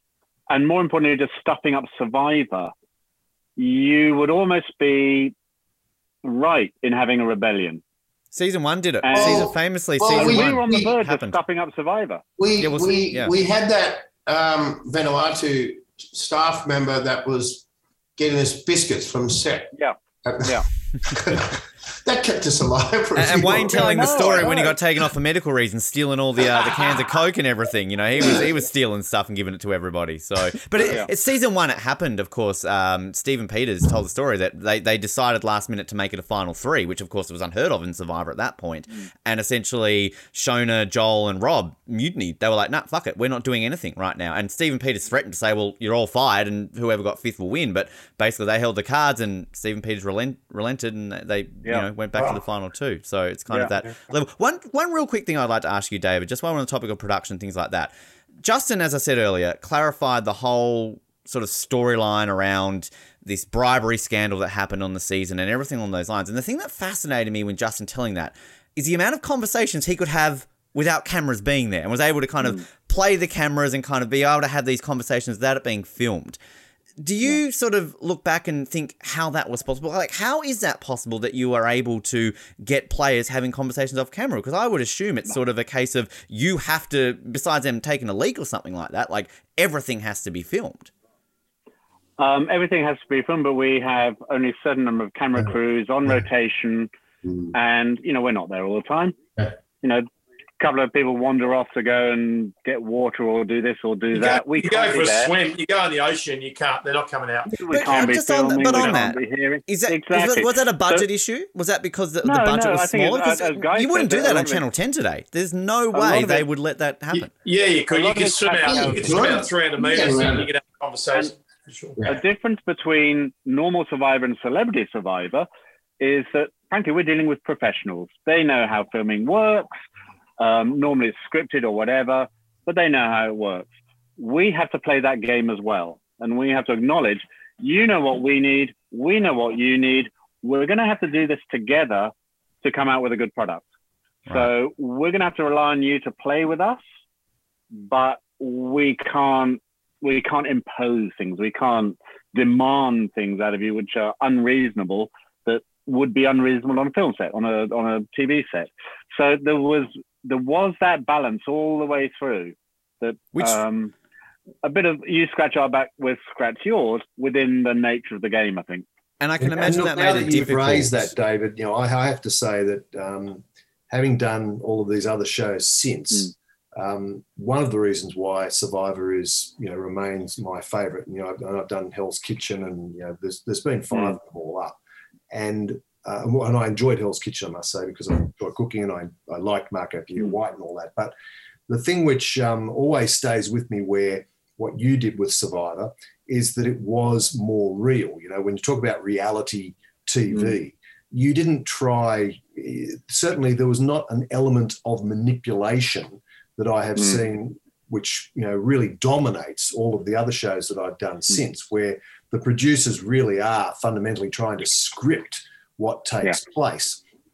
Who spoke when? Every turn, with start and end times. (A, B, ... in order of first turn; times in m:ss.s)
0:00.5-0:02.7 A
0:03.6-0:05.3 A
0:06.2-0:07.8 A
0:08.3-0:11.4 B
0:09.0-0:09.5 A
0:09.1-0:10.9 C
0:10.1-0:12.2 A
0:12.4-0:17.6 C
0:12.6-0:13.3 B
0:18.2-0:19.7 C
0:19.7-0:20.6 A
0:20.2-0:24.6 C
0:23.2-1:16.4 B
0:23.7-0:24.7 A
0:30.8-0:31.1 A
0:52.1-0:52.4 D
1:17.0-1:30.9 B
1:32.2-1:36.9 A
1:37.2-1:37.5 C
1:37.5-1:39.2 A
1:39.8-1:40.0 A
1:40.6-1:45.3 A
1:44.1-1:48.1 D
1:47.5-1:51.1 A
1:47.7-1:57.3 B
1:48.6-1:49.1 D
1:52.2-1:54.6 A
1:55.9-1:56.5 A
1:57.4-2:02.0 D
1:57.9-1:59.4 A
1:58.6-2:00.5 C
2:02.1-2:05.4 A
2:06.0-2:09.7 A
2:10.4-2:23.6 A
2:24.3-2:26.8 A
2:27.8-2:43.9 A
2:44.6-2:48.8 A
2:49.2-2:51.0 B
2:49.4-3:04.8 E
3:05.3-3:11.1 E
3:11.7-3:37.0 E
3:27.0-3:27.2 A